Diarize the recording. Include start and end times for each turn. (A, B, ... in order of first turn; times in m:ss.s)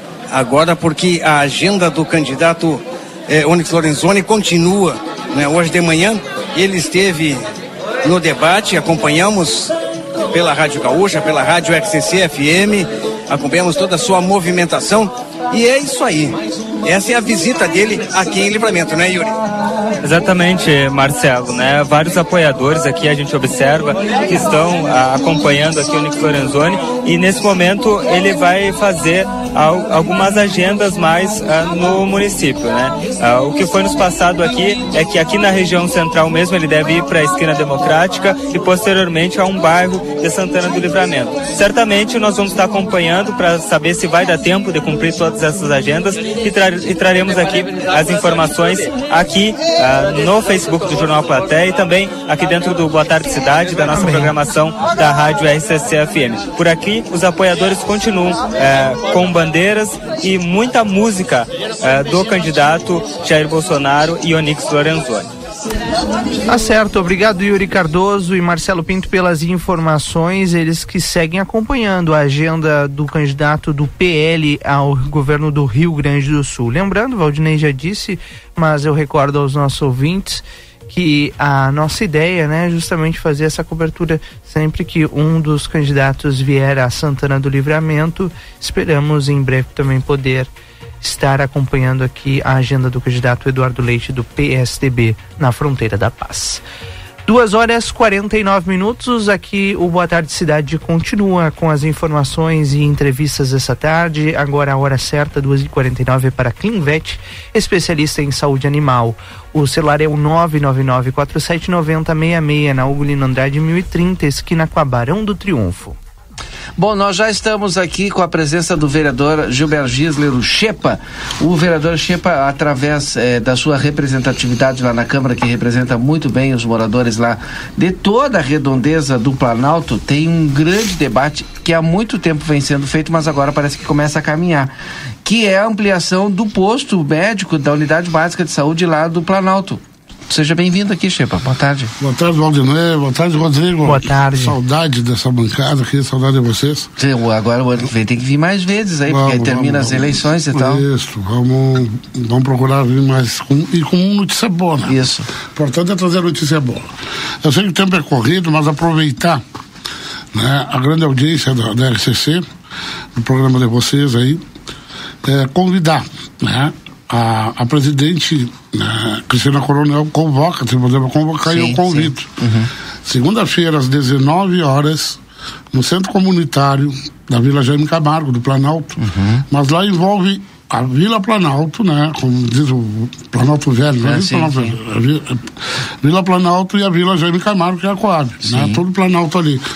0:00.3-0:07.4 A
0:08.0-0:09.7 A
0:10.3-0:19.4 A
0:20.0-1:05.3 B
1:06.5-1:30.5 C
1:31.0-1:36.6 C
1:37.3-1:56.0 C
1:56.8-2:14.7 D
2:15.2-2:21.9 D
2:22.0-2:26.9 E
2:23.8-2:24.6 C
2:27.0-2:30.8 D
2:29.1-2:35.0 E
2:34.8-2:35.3 D
2:35.6-2:36.9 E
2:37.4-2:39.4 E
2:40.3-2:42.4 E
2:43.2-2:44.4 E
2:45.2-2:52.3 E
2:51.5-2:52.7 D
2:53.0-2:55.2 E
2:55.7-2:59.0 E
2:59.0-2:59.4 D
2:59.5-3:09.6 E
3:04.0-3:04.8 D
3:08.4-3:08.8 D